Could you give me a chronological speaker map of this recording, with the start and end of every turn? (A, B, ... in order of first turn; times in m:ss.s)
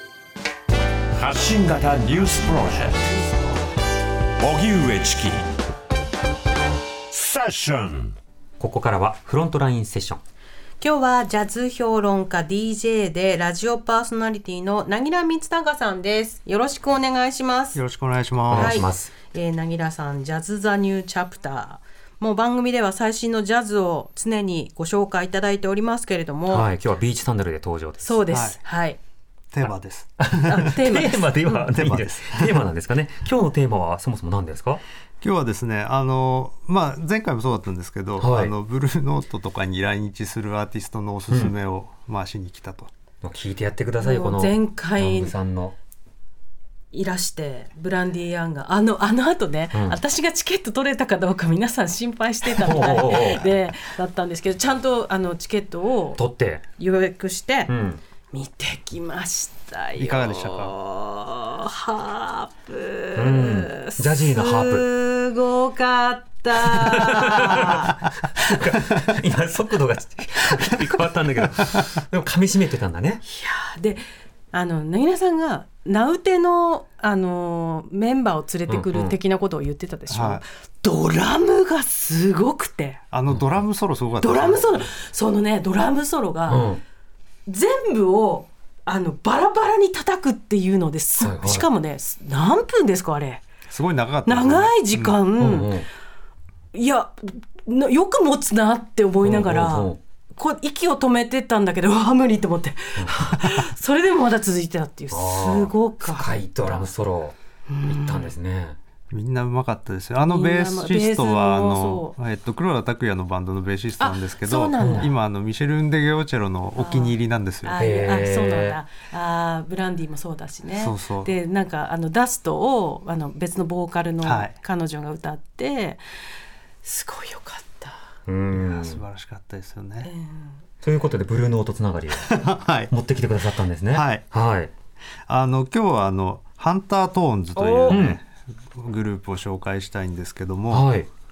0:01.1-0:03.1 A
0:04.4-0:05.5 A
0:07.1-0:08.2 A
0:08.6-0:10.2 B
0:10.8-0:17.8 C
0:17.8-0:18.8 D
0:18.5-0:19.1 B
0:18.5-0:26.7 C
0:26.5-0:28.2 B
0:28.0-0:29.0 C
0:28.3-0:28.6 D
0:29.5-0:30.7 D
0:29.6-0:34.8 B
0:30.5-0:31.2 C
0:31.4-0:32.6 D
0:35.2-0:42.9 D
0:38.2-0:38.5 B
0:41.3-0:41.5 B
0:43.2-0:45.8 B
0:44.0-0:45.3 C
0:46.9-0:56.2 C
0:49.7-0:50.0 B
0:52.5-0:53.5 B
0:56.2-0:56.6 B
0:56.8-0:57.7 C
0:57.7-0:58.0 B
0:58.3-1:08.0 C
1:00.0-1:00.7 D
1:03.1-1:04.9 B
1:06.7-1:13.2 B
1:13.2-1:23.0 C
1:18.7-1:19.2 B
1:20.1-1:20.4 D
1:23.1-1:24.6 D
1:23.3-1:23.6 B
1:24.2-1:26.7 C
1:26.5-1:26.8 B
1:27.5-1:33.4 C
1:31.2-1:31.7 B
1:33.7-1:35.2 D
1:34.2-1:35.8 C
1:35.4-1:35.9 B
1:36.7-1:46.9 C
1:39.2-1:40.0 B
1:43.0-1:43.4 B
1:45.1-1:48.8 B
1:47.7-1:48.3 C
1:49.1-1:57.8 D
1:50.3-1:52.1 C
1:54.0-1:55.1 C
1:54.8-1:55.1 B
1:56.8-2:06.0 C
1:57.8-1:58.8 B
2:00.8-2:01.3 D
2:04.2-2:04.5 D
2:06.8-2:08.0 C
2:08.3-2:09.0 B
2:08.5-2:10.1 D
2:10.0-2:10.6 C
2:10.8-2:12.3 B
2:12.2-2:12.9 D
2:12.9-2:14.7 B
2:13.9-2:14.2 D
2:15.3-2:20.9 D
2:17.6-2:18.0 C
2:17.9-2:18.2 B
2:20.7-2:21.1 B